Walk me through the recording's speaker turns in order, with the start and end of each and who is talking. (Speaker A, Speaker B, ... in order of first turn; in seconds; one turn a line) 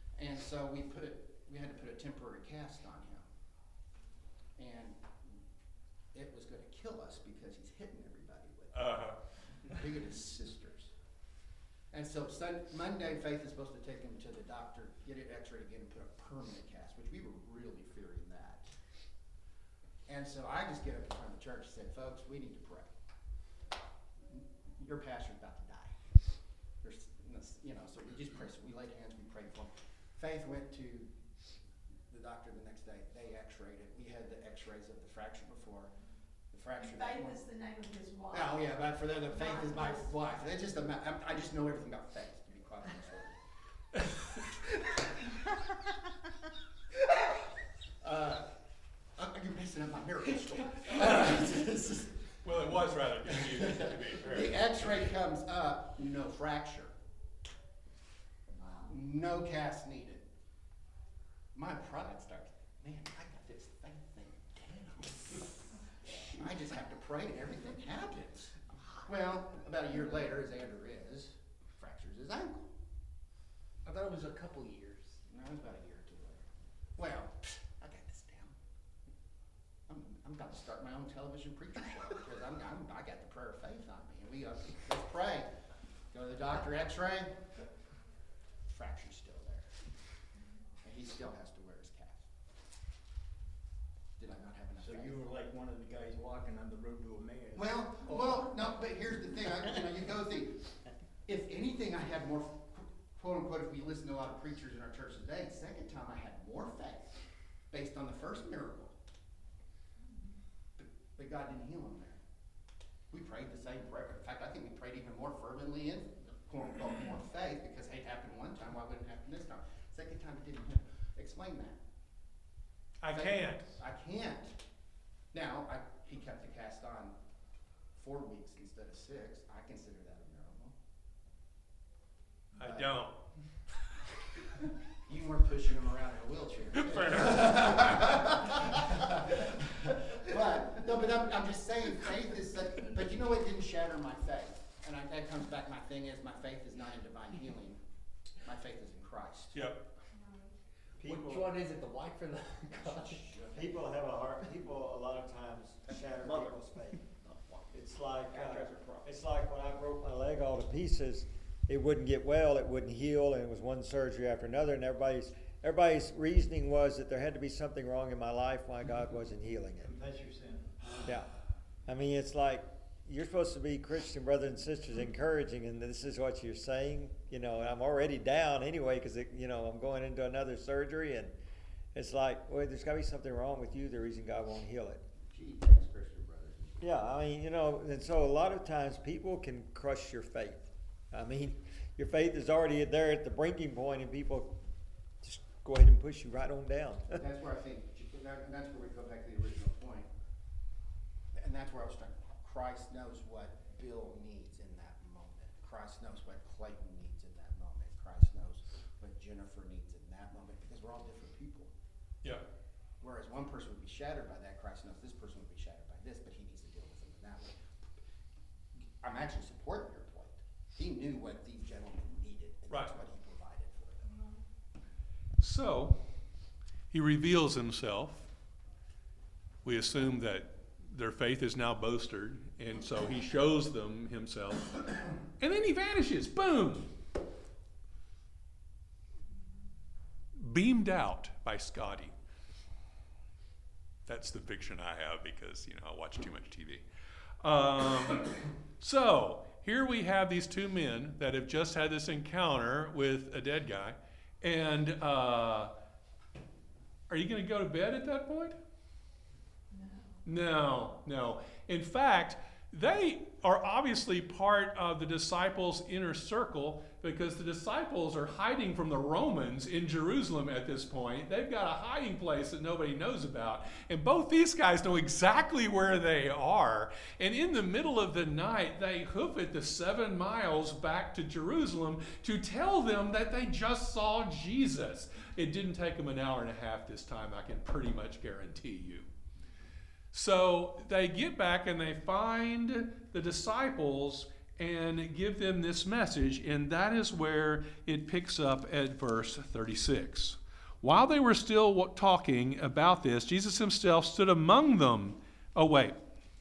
Speaker A: 0.1-3.2
Speaker A: 4.6-5.0
Speaker A: 6.1-8.9
Speaker B: 8.7-9.2
Speaker A: 9.7-10.9
Speaker A: 11.9-18.7
Speaker A: 20.1-22.9
Speaker A: 24.2-26.0
Speaker A: 26.8-31.1
Speaker A: 32.1-35.9
Speaker A: 36.5-37.4
Speaker C: 36.8-38.7
Speaker A: 38.3-43.4
Speaker C: 39.3-40.1
Speaker A: 48.0-48.5
Speaker A: 49.2-52.4
Speaker B: 52.4-55.0
Speaker A: 53.2-56.9
Speaker C: 58.5-58.9
Speaker A: 58.9-60.2
Speaker A: 61.5-72.7
Speaker D: 73.8-75.2
Speaker A: 75.3-76.4
Speaker A: 77.0-78.5
Speaker A: 79.9-85.5
Speaker A: 86.1-87.4
Speaker A: 88.7-89.7
Speaker A: 90.8-92.2
Speaker A: 94.2-95.3
Speaker E: 94.8-98.7
Speaker A: 97.5-100.7
Speaker A: 101.2-107.1
Speaker A: 107.7-108.9
Speaker C: 110.0-110.3
Speaker A: 110.8-112.2
Speaker A: 113.1-121.8
Speaker B: 123.0-123.7
Speaker A: 123.1-124.6
Speaker A: 125.3-127.1
Speaker A: 128.0-130.7
Speaker B: 132.6-133.2
Speaker A: 132.6-132.9
Speaker A: 135.1-147.8
Speaker B: 136.7-138.0
Speaker A: 148.4-149.7
Speaker B: 149.5-149.8
Speaker C: 150.1-150.5
Speaker F: 151.0-151.5
Speaker E: 151.0-151.5
Speaker D: 151.1-153.2
Speaker A: 152.7-153.7
Speaker F: 153.5-157.0
Speaker E: 156.2-156.6
Speaker E: 157.2-157.7
Speaker F: 157.7-169.9
Speaker E: 158.3-159.0
Speaker E: 169.8-170.8
Speaker F: 171.0-171.3
Speaker F: 171.8-181.3
Speaker F: 181.9-185.0
Speaker A: 185.2-186.9
Speaker F: 186.8-194.6
Speaker F: 195.2-197.2
Speaker A: 197.2-200.1
Speaker A: 201.3-211.7
Speaker A: 213.0-217.6
Speaker A: 219.0-224.1
Speaker C: 224.1-224.4
Speaker B: 225.4-226.0
Speaker B: 226.9-228.3
Speaker B: 229.6-236.9
Speaker B: 240.3-242.1
Speaker B: 244.1-246.8
Speaker B: 247.4-255.7
Speaker B: 257.1-258.6
Speaker C: 259.7-260.2
Speaker B: 260.2-289.1
Speaker B: 290.1-305.9